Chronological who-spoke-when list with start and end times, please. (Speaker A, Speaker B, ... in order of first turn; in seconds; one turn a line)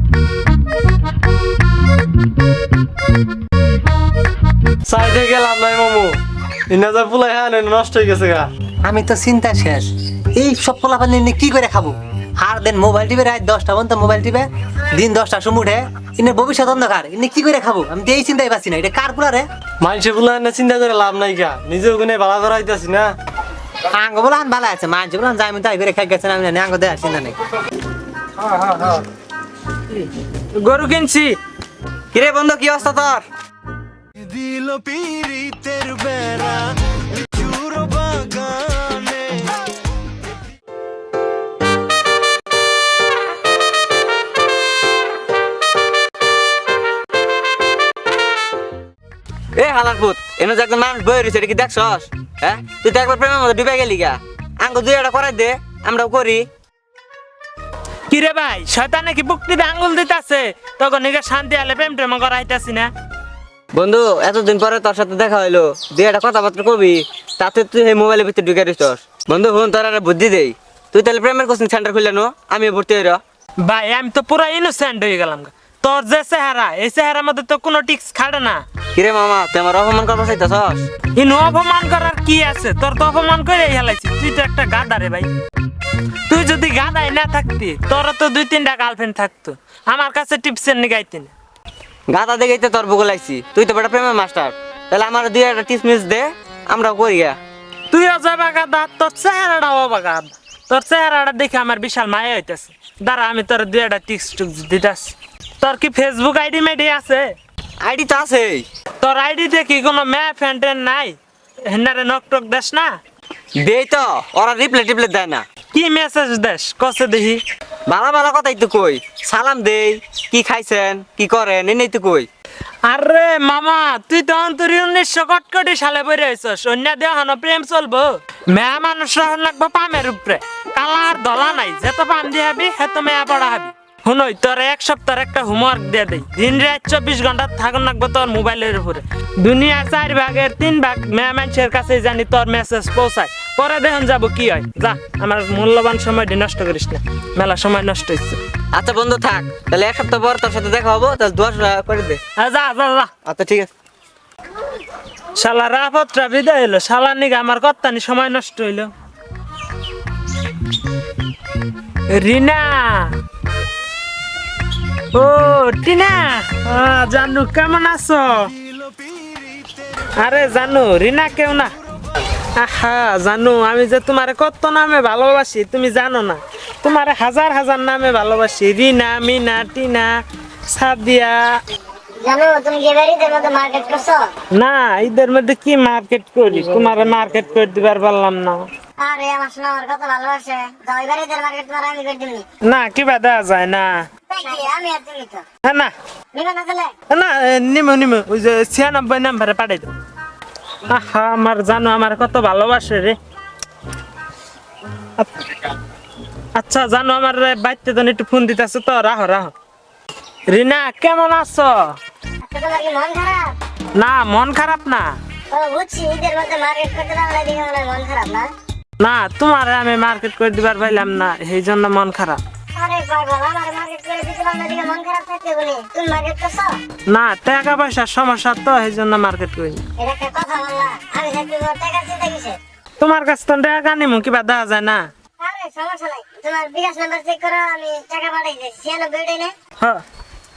Speaker A: 4.9-8.5
Speaker B: 8.8-19.4
Speaker A: 19.8-23.1
Speaker B: 23.9-27.4
Speaker A: 28.4-29.0
Speaker C: 30.6-31.4
Speaker D: 32.1-33.2
Speaker E: 34.3-36.7
Speaker E: 37.3-39.4
Speaker D: 49.6-56.5
Speaker C: 58.1-62.9
Speaker D: 63.7-73.2
Speaker C: 73.6-78.6
Speaker D: 79.0-80.9
Speaker C: 81.2-85.3
Speaker C: 86.3-91.3
Speaker D: 92.1-97.4
Speaker C: 97.9-107.3
Speaker D: 107.8-108.7
Speaker C: 109.0-111.2
Speaker C: 111.7-112.9
Speaker D: 113.6-115.4
Speaker C: 115.7-117.4
Speaker D: 117.9-122.3
Speaker C: 122.9-148.4
Speaker D: 148.7-152.2
Speaker C: 152.4-153.1
Speaker D: 153.2-153.7
Speaker C: 155.4-158.9
Speaker C: 162.1-163.2
Speaker C: 165.1-168.5
Speaker C: 170.2-171.8
Speaker C: 172.6-180.1
Speaker C: 180.7-181.6
Speaker F: 182.2-184.3
Speaker C: 184.6-188.7
Speaker F: 189.0-192.5
Speaker C: 192.7-194.0
Speaker F: 194.3-195.4
Speaker C: 195.7-195.9
Speaker F: 196.3-196.9
Speaker C: 197.1-199.9
Speaker C: 200.9-203.2
Speaker C: 205.2-205.5
Speaker C: 206.6-209.5
Speaker C: 210.5-211.9
Speaker F: 212.4-213.5
Speaker C: 214.0-215.2
Speaker F: 215.5-218.5
Speaker C: 219.0-222.4
Speaker F: 222.8-226.8
Speaker C: 227.1-229.8
Speaker F: 230.0-232.6
Speaker C: 233.0-235.1
Speaker F: 235.4-239.5